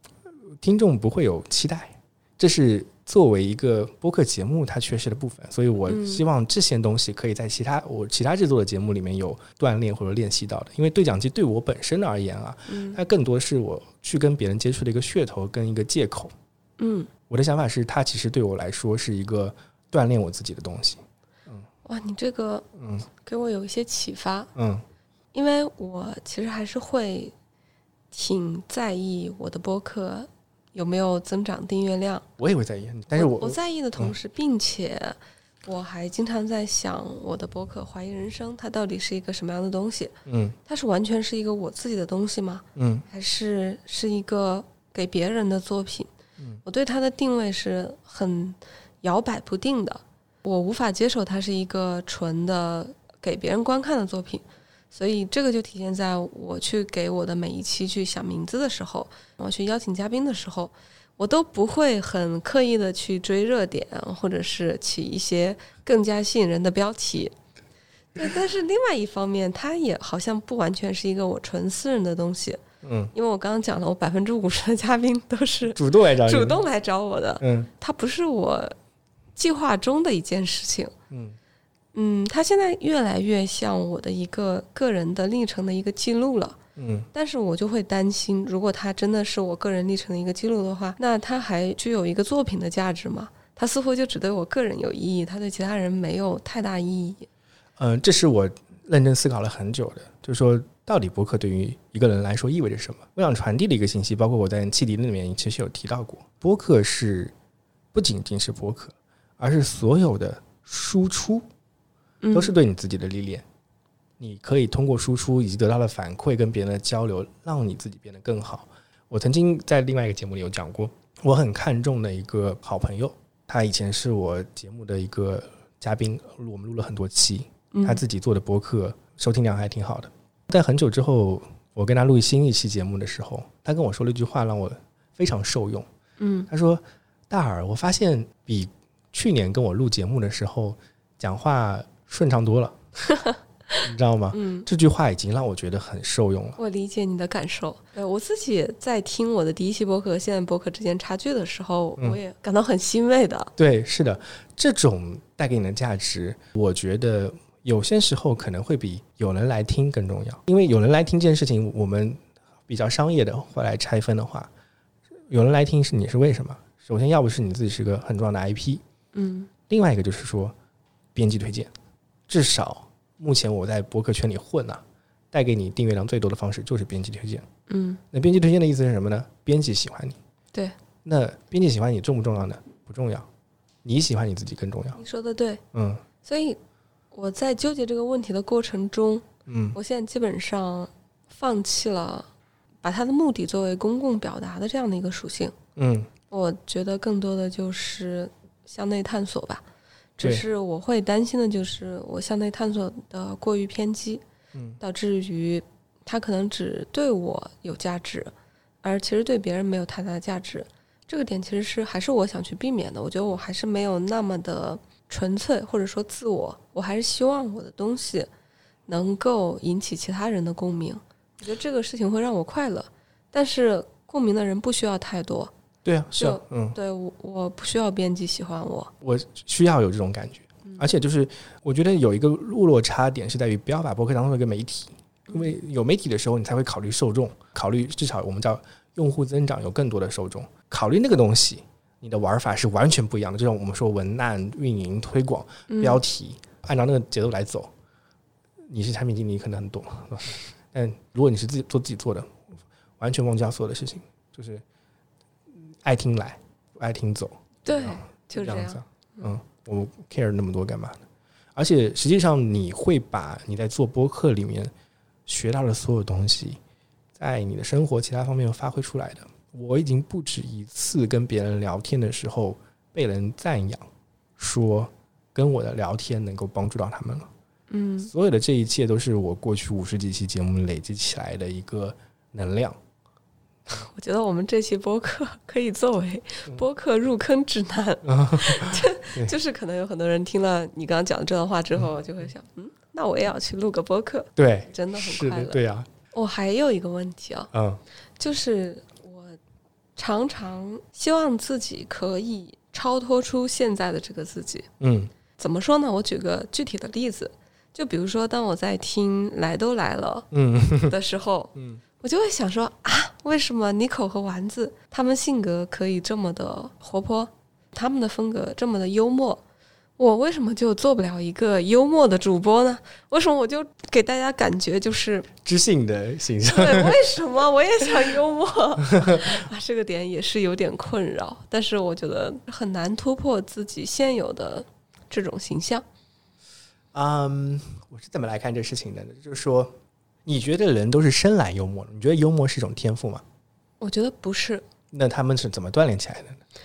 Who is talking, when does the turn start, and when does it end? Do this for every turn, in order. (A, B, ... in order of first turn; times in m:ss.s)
0:00.6-0:16.3 A
0:05.9-0:06.2 B
0:12.7-0:13.0 B
0:16.8-0:17.1 B
0:17.3-0:21.6 A
0:21.8-0:24.5 B
0:22.8-0:23.0 A
0:24.6-0:24.8 A
0:25.3-0:27.3 B
0:28.1-0:32.2 B
0:32.4-0:34.1 A
0:33.1-0:40.1 B
0:40.2-0:40.6 A
0:40.6-0:46.1 B
0:42.8-0:43.0 A
0:46.6-1:07.3 B
1:08.2-1:12.6 B
1:12.8-1:13.1 A
1:13.1-1:18.7 B
1:15.7-1:16.6 A
1:17.4-1:17.7 A
1:19.4-1:20.9 B
1:21.1-1:21.4 A
1:21.9-1:26.6 B
1:26.8-1:27.1 A
1:27.1-1:37.3 B
1:37.8-1:47.3 A
1:47.9-1:51.4 A
1:52.2-1:52.5 B
1:52.3-1:53.4 A
1:54.2-2:15.9 A
2:07.7-2:08.0 B
2:16.2-2:16.5 B
2:16.5-2:22.8 A
2:23.1-2:24.7 B
2:23.8-2:26.6 A
2:26.6-2:33.5 B
2:33.6-2:44.5 A
2:45.3-2:48.8 A
2:49.1-2:49.5 B
2:49.7-2:50.5 A
2:51.1-2:51.7 A
2:52.3-2:57.4 A
2:57.7-2:58.0 B
2:58.1-3:00.2 A
3:01.0-3:03.3 A
3:03.8-3:05.0 A
3:05.0-3:05.6 B
3:05.7-3:06.0 A
3:06.2-3:06.6 B
3:07.1-3:12.3 B
3:09.5-3:09.8 A
3:12.8-3:15.5 B
3:15.8-3:16.1 A
3:16.3-3:19.6 B
3:20.2-3:24.2 B
3:24.5-3:24.8 A
3:24.8-3:28.3 B
3:28.8-3:38.3 B
3:38.9-3:45.5 B
3:45.8-3:46.8 A
3:46.2-3:48.9 B
3:49.0-4:07.7 A
3:50.6-3:50.9 B
3:55.3-3:55.5 B
4:05.7-4:06.0 B
4:08.7-4:12.4 A
4:13.0-4:14.6 A
4:15.6-4:21.0 A
4:17.6-4:19.3 B
4:21.6-4:24.7 A
4:25.2-4:26.6 A
4:27.2-4:37.3 A
4:37.7-4:38.1 B
4:38.0-4:42.8 A
4:43.7-4:55.6 B
4:48.0-4:49.3 A
4:54.4-4:55.9 A
4:56.1-4:57.5 B
4:57.5-4:57.8 A
4:58.2-4:59.4 B
5:00.0-5:04.7 B
5:04.8-5:05.1 A
5:05.4-5:10.3 B
5:10.3-5:11.0 A
5:10.8-5:19.4 B
5:11.5-5:11.8 A
5:20.0-5:25.3 B
5:25.4-5:27.0 A
5:26.4-5:35.8 B
5:28.9-5:29.4 A
5:36.9-5:43.2 A
5:43.8-5:44.6 B
5:44.9-5:46.4 A